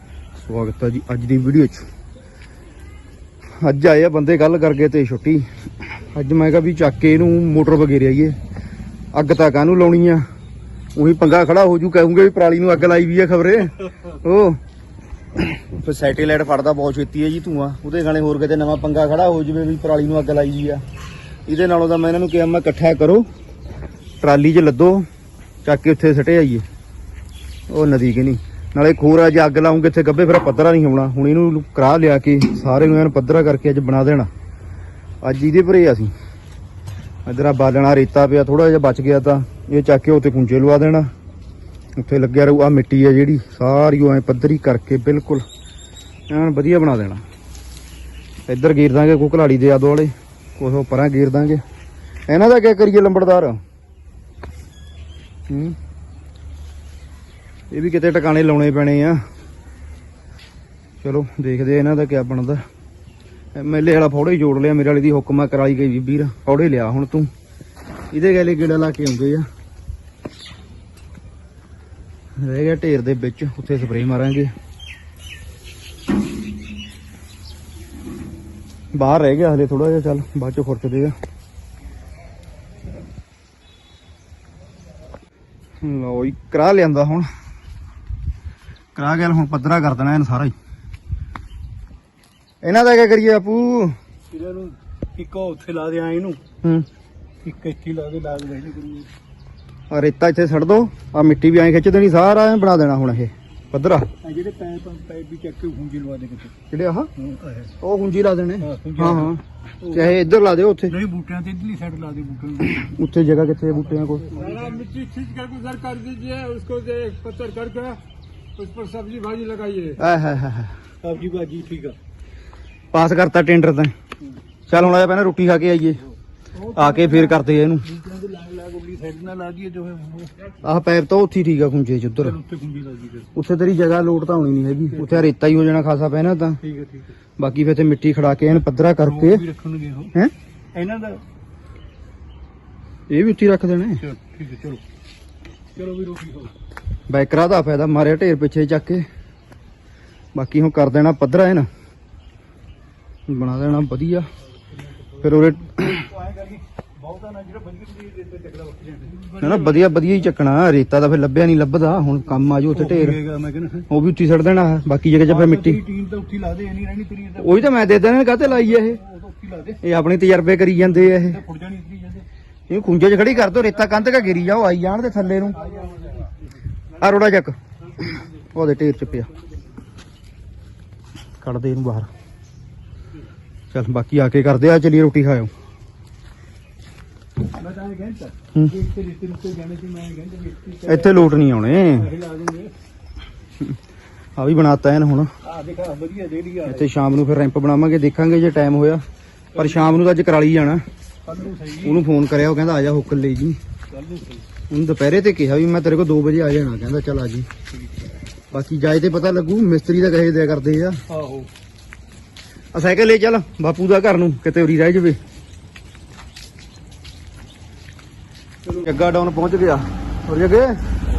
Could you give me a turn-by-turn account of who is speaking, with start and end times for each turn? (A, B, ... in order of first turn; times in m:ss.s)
0:00.4-0:01.8 A
0:03.6-0:08.3 A
0:09.1-0:10.2 A
0:10.9-0:14.6 A
0:15.6-0:20.8 A
0:21.5-0:23.3 A
0:24.2-0:25.0 A
0:25.6-0:26.6 A
0:27.7-0:34.3 A
0:35.2-0:36.1 A
0:37.2-0:41.1 A
0:42.0-0:45.4 A
0:46.3-0:47.2 A
0:48.5-0:51.6 A
0:52.3-0:53.6 A
0:55.5-0:55.8 A
0:57.7-0:59.2 A
1:01.0-1:02.6 A
1:03.6-1:07.3 A
1:08.1-1:09.4 A
1:12.4-1:14.5 A
1:18.9-1:21.1 A
1:25.8-1:27.3 A
1:29.0-1:30.5 A
1:32.6-1:33.9 A
1:34.3-1:36.4 B
1:37.4-1:39.1 B
1:39.9-1:44.1 A
1:44.2-1:46.5 B
1:46.7-1:47.1 A
1:47.2-1:47.7 B
1:47.8-1:49.4 A
1:48.6-1:50.2 B
1:49.9-1:50.9 A
1:50.9-1:52.9 B
1:52.7-1:54.3 A
1:54.2-1:58.0 B
1:58.6-2:00.0 B
2:00.0-2:00.7 A
2:01.0-2:02.0 B
2:02.9-2:03.9 A
2:04.7-2:06.0 A
2:06.6-2:10.6 B
2:06.8-2:07.8 A
2:10.6-2:12.4 A
2:12.2-2:13.3 B
2:13.4-2:16.6 A
2:14.9-2:15.3 B
2:16.6-2:17.2 B
2:17.4-2:19.4 A
2:19.0-2:20.1 B
2:20.7-2:21.2 B
2:23.1-2:24.0 A
2:24.0-2:24.8 B
2:25.7-2:26.5 B
2:27.1-2:29.0 A
2:30.3-2:31.7 A
2:33.3-2:34.3 A
2:34.7-2:40.2 B
2:35.2-2:36.0 A
2:39.4-2:43.2 A
2:42.7-2:43.8 B
2:43.9-2:45.8 A
2:45.2-2:47.8 B
2:47.4-2:49.0 A
2:48.4-2:49.8 B
2:49.8-2:51.4 A
2:50.8-2:52.2 B
2:52.7-2:55.6 A
2:55.5-2:57.2 B
2:57.0-2:57.6 A
2:57.8-2:59.8 B
2:58.5-2:59.3 A
3:01.4-3:02.1 A
3:03.7-3:05.5 A
3:07.5-3:11.3 B
3:10.8-3:12.1 A
3:11.9-3:12.7 B
3:14.4-3:15.3 A
3:15.4-3:16.9 B
3:16.7-3:19.0 A
3:19.5-3:20.0 B
3:19.6-3:20.8 A
3:21.2-3:22.0 B
3:21.8-3:23.6 A
3:23.9-3:24.5 B
3:24.7-3:27.5 A
3:28.5-3:31.0 A
3:31.1-3:31.5 B
3:32.7-3:35.2 A
3:38.7-3:40.8 A